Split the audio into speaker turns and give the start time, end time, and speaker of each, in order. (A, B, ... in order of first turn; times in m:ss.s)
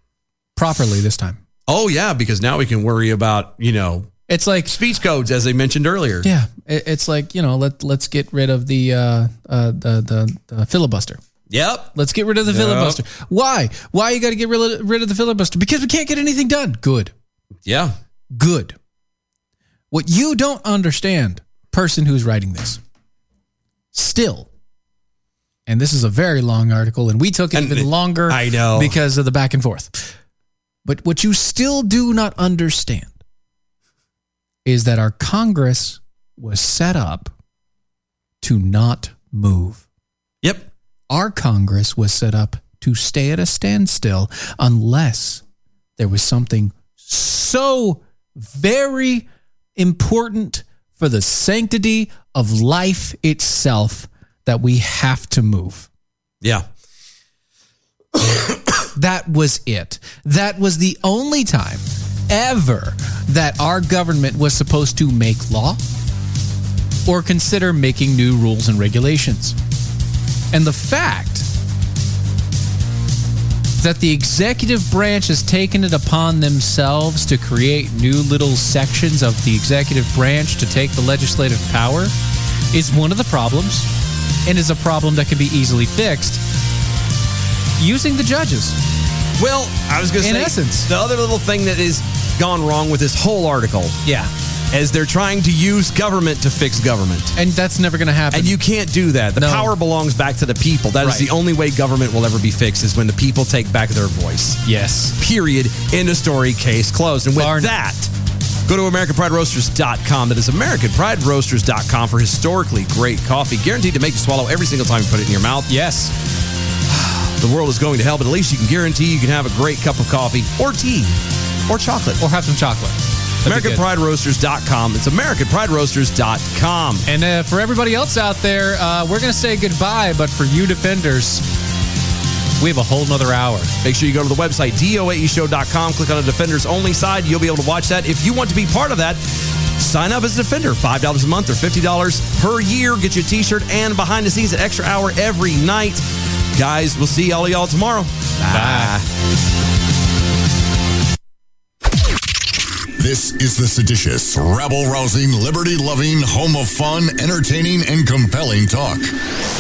0:00.6-0:01.4 A
0:01.7-0:04.1 B
0:04.3-0:04.8 A
0:04.7-0:06.3 B
0:06.2-0:11.2 A
0:11.5-0:11.9 B
0:12.0-0:17.1 A
0:12.4-0:13.0 B
0:17.6-0:18.0 B
0:18.3-0:18.8 A
0:19.9-0:22.8 A
0:23.9-0:24.5 A
0:25.7-0:30.0 A
0:27.5-0:29.0 B
0:30.8-0:33.1 A
0:34.6-0:37.3 A
0:38.4-0:39.8 A
0:40.4-0:40.7 B
0:41.1-0:45.4 A
0:46.0-0:55.9 A
0:56.4-0:56.7 B
0:58.2-0:58.7 B
0:59.0-1:05.8 A
1:07.1-1:09.6 A
1:10.5-1:11.5 A
1:13.8-1:22.1 A
1:22.7-1:23.9 A
1:24.4-1:26.4 A
1:27.8-1:28.8 A
1:29.4-1:34.0 B
1:30.2-1:30.9 A
1:34.0-1:34.3 A
1:34.7-1:37.3 B
1:37.4-1:38.6 A
1:38.3-1:44.6 B
1:39.4-1:39.7 A
1:41.0-1:41.3 A
1:44.6-1:45.2 A
1:45.2-1:48.1 B
1:47.4-1:47.7 A
1:48.7-1:55.7 B
1:55.7-1:56.1 A
1:56.9-2:02.2 B
2:02.2-2:03.8 A
2:03.4-2:07.1 B
2:07.1-2:11.4 A
2:12.6-2:13.7 A
2:13.8-2:29.1 B
2:28.4-2:29.0 A
2:33.0-2:39.1 C